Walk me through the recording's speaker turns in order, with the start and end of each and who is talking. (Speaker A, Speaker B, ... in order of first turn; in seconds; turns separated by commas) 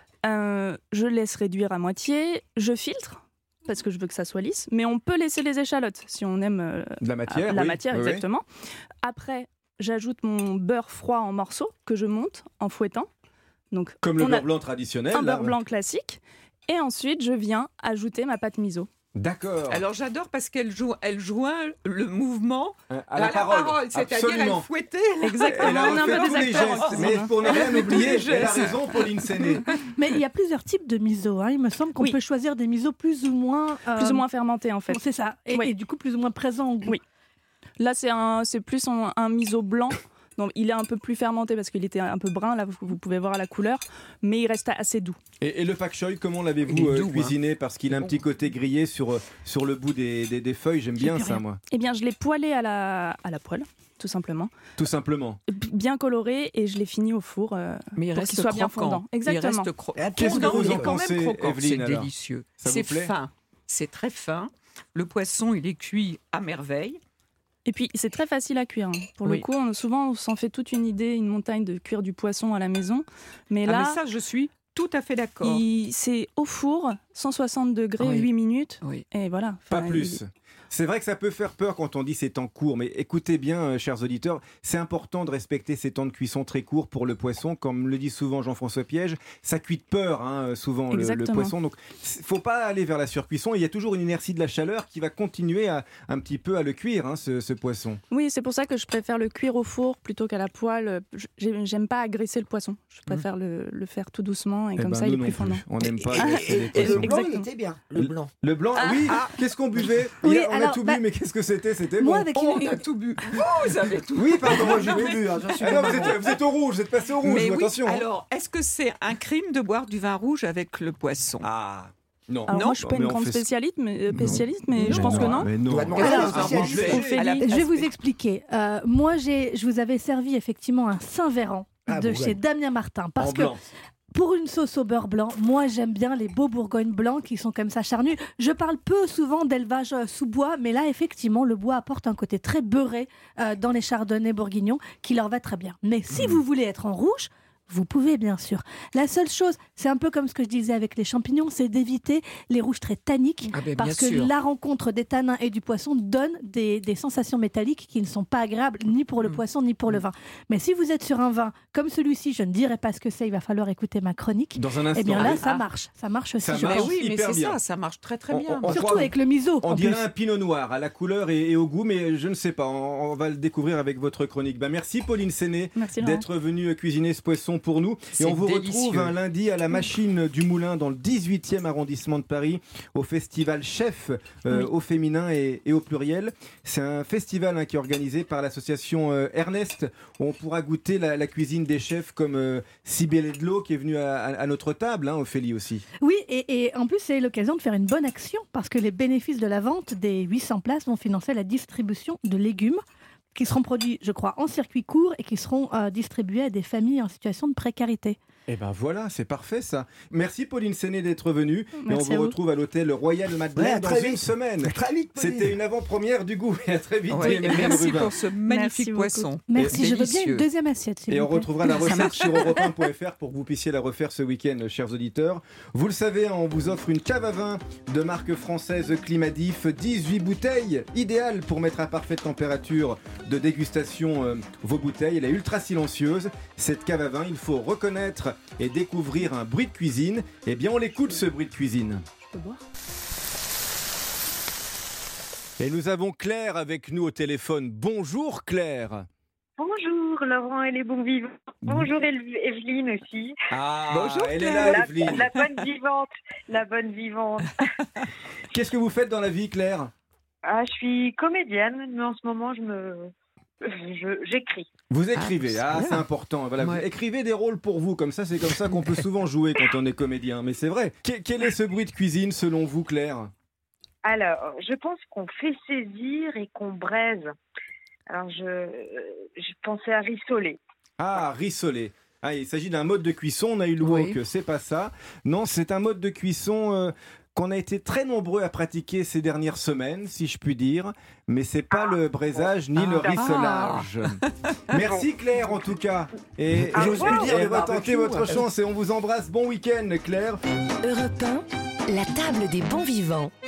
Speaker A: 0.2-8.4, Speaker B: 7.0-8.2, Speaker A: 9.0-13.1, Speaker A: 13.7-14.5, Speaker B: 14.0-15.6, Speaker A: 15.1-18.9, Speaker B: 19.2-19.8, Speaker C: 19.7-29.9, Speaker B: 22.9-24.7, Speaker A: 25.2-27.3, Speaker B: 25.5-29.7, Speaker D: 29.9-34.2, Speaker A: 34.0-35.0, Speaker D: 34.9-37.0, Speaker A: 37.8-45.2, Speaker B: 45.4-51.6, Speaker C: 46.6-47.3, Speaker C: 47.9-48.2, Speaker D: 51.0-51.4, Speaker A: 51.7-54.5, Speaker B: 54.8-55.4, Speaker A: 55.5-59.7, Speaker C: 58.0-67.0, Speaker E: 59.9-61.0, Speaker B: 60.2-63.1, Speaker A: 67.7-74.0, Speaker C: 73.7-75.6, Speaker A: 75.4-80.2, Speaker C: 78.0-78.3, Speaker B: 79.7-98.0, Speaker A: 90.9-91.5, Speaker A: 98.1-105.6, Speaker B: 104.8-107.2, Speaker E: 106.1-108.3, Speaker A: 106.2-107.4, Speaker B: 108.0-112.3, Speaker C: 109.0-109.3, Speaker D: 110.2-111.0, Speaker D: 112.0-112.8, Speaker C: 112.3-116.4, Speaker B: 114.2-118.1, Speaker E: 114.5-116.3, Speaker C: 117.2-121.5, Speaker B: 121.4-123.5, Speaker C: 122.5-122.8, Speaker A: 122.5-125.5, Speaker B: 124.1-127.3, Speaker E: 124.2-127.2, Speaker C: 125.6-127.9, Speaker D: 126.0-126.8, Speaker A: 126.8-127.5, Speaker D: 127.4-133.6, Speaker E: 131.9-132.3, Speaker B: 133.2-133.7, Speaker D: 134.1-166.9, Speaker C: 153.5-154.3, Speaker C: 159.2-160.0, Speaker B: 164.6-165.4, Speaker C: 165.1-165.7, Speaker B: 166.4-167.6, Speaker C: 166.5-169.0, Speaker B: 168.3-195.8, Speaker D: 168.7-170.1, Speaker A: 175.7-176.2, Speaker C: 178.2-179.2, Speaker D: 196.0-202.8, Speaker D: 203.3-208.2, Speaker B: 208.5-218.2, Speaker A: 211.8-212.2, Speaker D: 211.9-212.3, Speaker E: 213.5-215.6, Speaker C: 217.1-220.4, Speaker A: 217.2-217.9, Speaker A: 218.5-219.3, Speaker D: 219.5-221.9, Speaker B: 219.5-219.9, Speaker B: 221.1-242.0, Speaker A: 221.9-222.5, Speaker A: 242.3-242.6, Speaker B: 245.6-249.1, Speaker F: 249.6-253.3, Speaker B: 251.6-251.9, Speaker B: 253.5-255.3, Speaker C: 253.9-255.6, Speaker F: 254.4-257.6, Speaker C: 257.8-258.1, Speaker B: 258.5-259.9, Speaker F: 260.4-263.1, Speaker F: 263.6-264.7, Speaker B: 264.9-273.3, Speaker C: 265.1-266.0, Speaker C: 266.6-266.8, Speaker C: 268.7-269.0, Speaker F: 274.0-277.3, Speaker F: 278.1-280.6, Speaker B: 281.0-294.2, Speaker C: 283.8-284.2, Speaker F: 291.7-293.3, Speaker C: 292.8-294.6, Speaker B: 294.7-300.4, Speaker F: 294.7-295.0, Speaker E: 296.7-298.4, Speaker F: 296.8-297.3, Speaker G: 300.8-303.3